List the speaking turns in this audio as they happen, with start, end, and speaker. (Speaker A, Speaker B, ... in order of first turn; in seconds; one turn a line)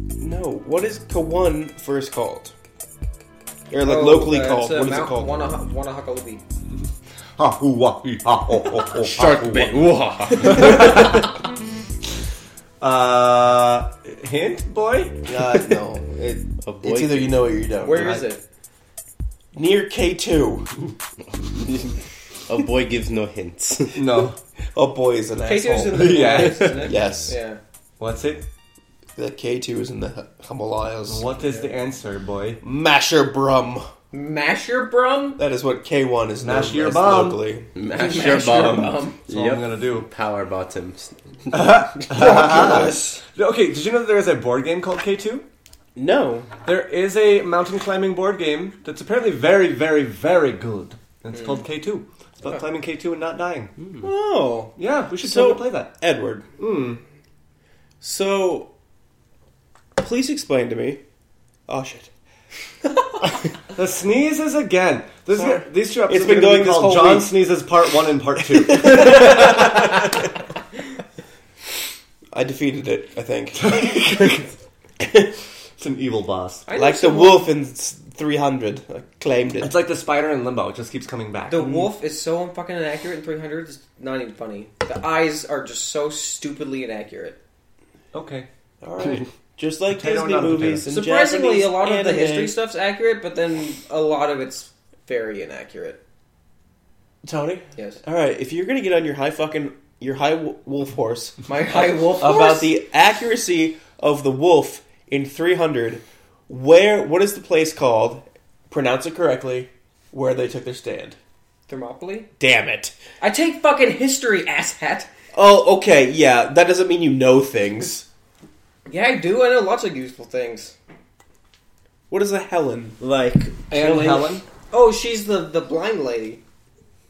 Speaker A: 0.2-2.5
Speaker A: 3.7-5.3
Speaker B: 3.8-6.4
Speaker C: 7.4-9.8
Speaker D: 8.9-11.2
Speaker C: 10.4-11.3
Speaker C: 12.8-15.2
Speaker A: 15.2-18.2
Speaker D: 16.6-17.4
Speaker B: 17.8-18.4
Speaker C: 18.0-18.2
Speaker A: 19.5-20.7
Speaker D: 21.4-24.0
Speaker C: 23.9-24.4
Speaker A: 24.7-27.4
Speaker B: 25.4-27.6
Speaker C: 25.9-26.9
Speaker C: 28.0-28.4
Speaker A: 29.2-31.3
Speaker C: 31.1-32.6
Speaker A: 32.6-33.9
Speaker B: 34.1-35.4
Speaker A: 35.4-37.7
Speaker C: 36.4-37.5
Speaker D: 37.8-41.8
Speaker B: 37.9-39.2
Speaker C: 39.3-40.1
Speaker C: 41.5-45.5
Speaker B: 42.2-43.2
Speaker A: 42.2-43.0
Speaker A: 46.0-46.5
Speaker C: 46.6-53.7
Speaker A: 54.0-56.5
Speaker C: 54.8-55.9
Speaker C: 56.6-57.0
Speaker A: 58.0-58.7
Speaker A: 60.0-61.0
Speaker A: 61.7-62.1
Speaker C: 63.7-70.1
Speaker A: 65.3-67.3
Speaker A: 68.7-70.0
Speaker A: 72.3-73.9
Speaker C: 73.6-74.5
Speaker C: 75.8-76.7
Speaker B: 76.7-77.5
Speaker A: 76.8-79.7
Speaker C: 79.6-81.9
Speaker B: 81.5-87.4
Speaker C: 88.1-88.5
Speaker A: 88.8-92.6
Speaker C: 89.0-89.3
Speaker C: 89.9-90.9
Speaker B: 90.9-96.0
Speaker A: 97.2-111.2
Speaker B: 101.5-102.8
Speaker B: 111.7-112.3
Speaker A: 112.4-113.0
Speaker B: 113.2-115.1
Speaker A: 115.3-118.1
Speaker B: 118.9-120.8
Speaker A: 122.1-123.0
Speaker D: 123.0-124.3
Speaker C: 123.5-124.4
Speaker B: 124.7-126.4